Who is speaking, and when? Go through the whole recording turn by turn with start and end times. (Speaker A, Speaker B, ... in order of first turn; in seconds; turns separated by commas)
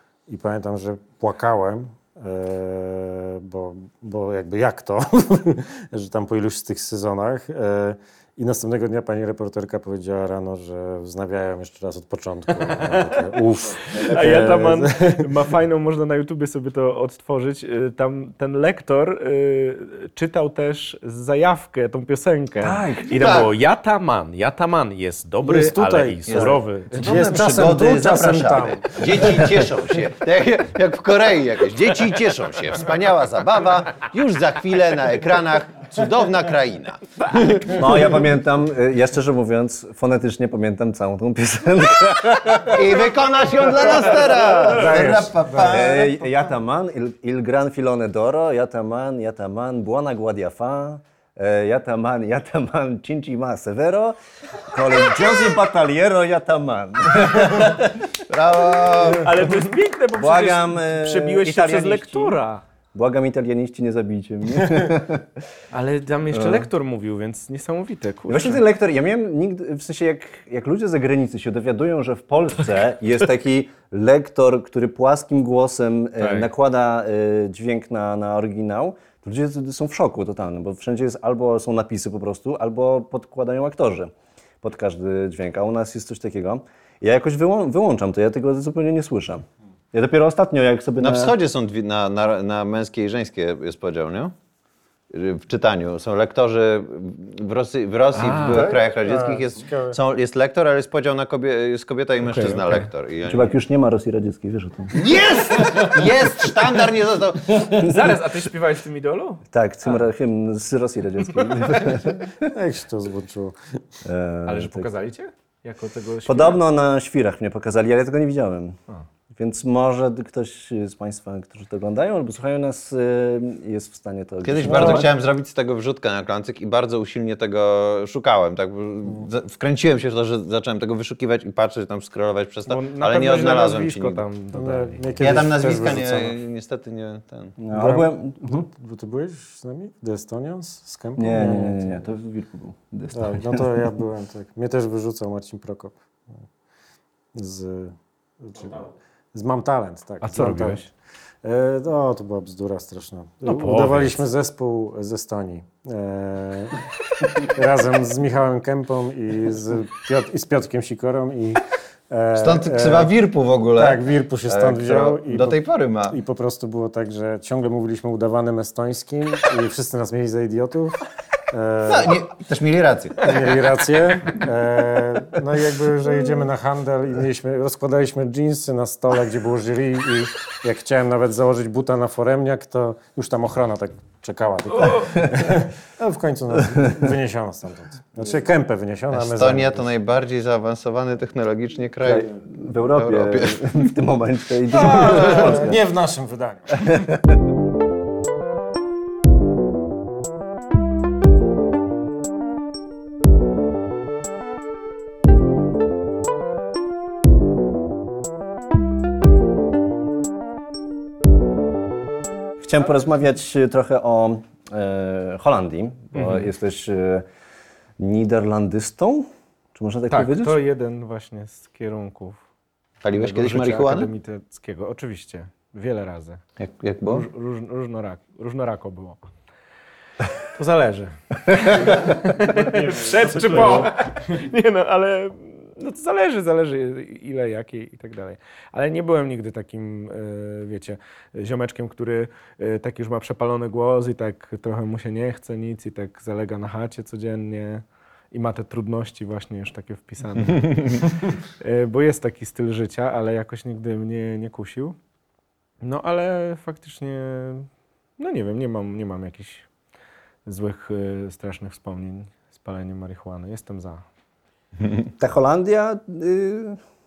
Speaker A: 0.3-15.3, Speaker B: 12.7-13.2, Speaker B: 13.8-27.4, Speaker C: 22.6-23.2, Speaker D: 23.1-23.5, Speaker A: 25.4-29.6, Speaker D: 26.3-37.9, Speaker B: 37.2-37.6, Speaker C: 37.7-43.0, Speaker D: 42.7-46.0, Speaker A: 44.6-46.1, Speaker C: 45.6-58.1, Speaker D: 58.3-59.3, Speaker C: 58.7-59.5, Speaker B: 59.1-62.6, Speaker C: 60.1-62.4, Speaker C: 62.9-65.4, Speaker B: 65.7-68.6, Speaker C: 66.3-66.7, Speaker C: 68.3-91.3, Speaker B: 76.2-76.5, Speaker D: 91.0-94.3, Speaker D: 95.1-103.5, Speaker B: 98.1-98.7, Speaker A: 98.4-100.0, Speaker B: 102.2-102.9, Speaker C: 103.3-105.0, Speaker D: 104.9-107.7, Speaker B: 107.6-109.4, Speaker C: 109.5-112.5, Speaker B: 111.4-111.9, Speaker A: 112.4-113.6, Speaker C: 114.0-114.9, Speaker B: 114.5-116.6, Speaker C: 116.2-118.8, Speaker C: 119.3-125.1, Speaker D: 124.4-134.2, Speaker B: 124.6-125.0, Speaker B: 132.7-135.5, Speaker A: 134.5-136.4, Speaker D: 135.2-137.5, Speaker C: 137.6-138.7, Speaker A: 137.7-142.0, Speaker C: 141.2-144.0, Speaker A: 143.1-145.9, Speaker A: 147.3-150.9, Speaker B: 150.2-150.9, Speaker A: 151.4-163.1, Speaker B: 153.4-154.2, Speaker D: 162.3-166.2, Speaker A: 163.8-172.2, Speaker D: 171.9-173.4, Speaker A: 173.2-189.9, Speaker B: 184.7-185.1, Speaker C: 185.0-185.4, Speaker C: 186.8-187.1, Speaker D: 189.1-192.3, Speaker C: 192.0-195.8, Speaker D: 192.9-193.9, Speaker A: 194.7-196.9, Speaker D: 194.7-195.7, Speaker C: 196.7-197.3, Speaker C: 212.6-217.2, Speaker B: 216.1-216.4, Speaker C: 218.0-220.6, Speaker B: 220.1-222.4, Speaker D: 223.0-224.1, Speaker B: 223.1-226.4, Speaker D: 226.6-227.2, Speaker B: 227.1-229.2, Speaker B: 230.4-255.0, Speaker A: 232.5-233.9, Speaker B: 255.8-259.7, Speaker B: 260.4-264.0, Speaker C: 265.2-266.8